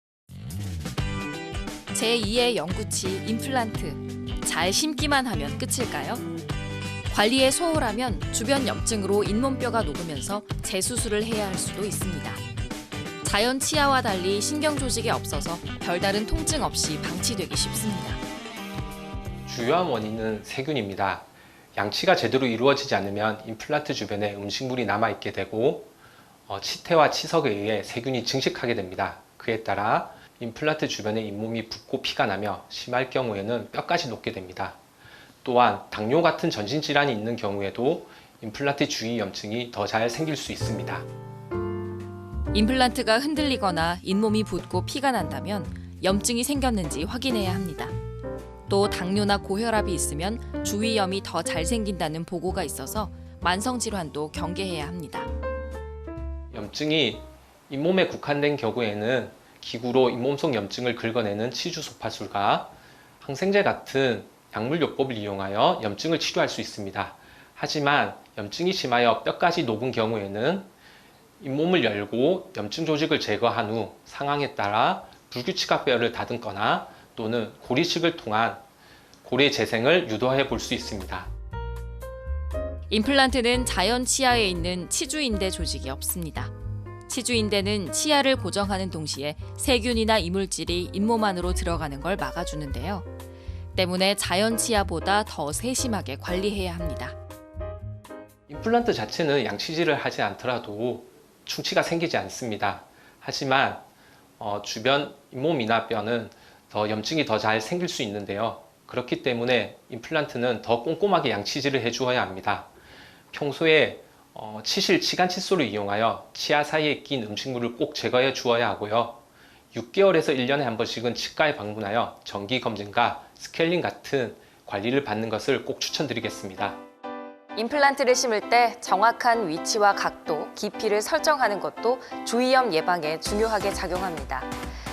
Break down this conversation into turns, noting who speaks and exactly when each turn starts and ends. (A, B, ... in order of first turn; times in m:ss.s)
0:01.9-0:06.2 A
0:07.1-0:12.4 A
0:13.2-0:18.2 A
0:19.5-0:25.9 B
0:26.5-0:34.8 B
0:35.4-0:41.1 B
0:42.5-0:47.9 A
0:48.7-0:55.3 A
0:56.5-1:10.7 B
1:11.4-1:18.6 B
1:19.2-1:21.3 B
1:22.9-1:26.5 A
1:27.1-1:33.1 A
1:33.8-1:37.2 A
1:38.5-1:43.8 B
1:44.4-1:52.7 B
1:53.3-1:59.2 B
1:59.7-2:06.8 B
2:07.6-2:14.5 A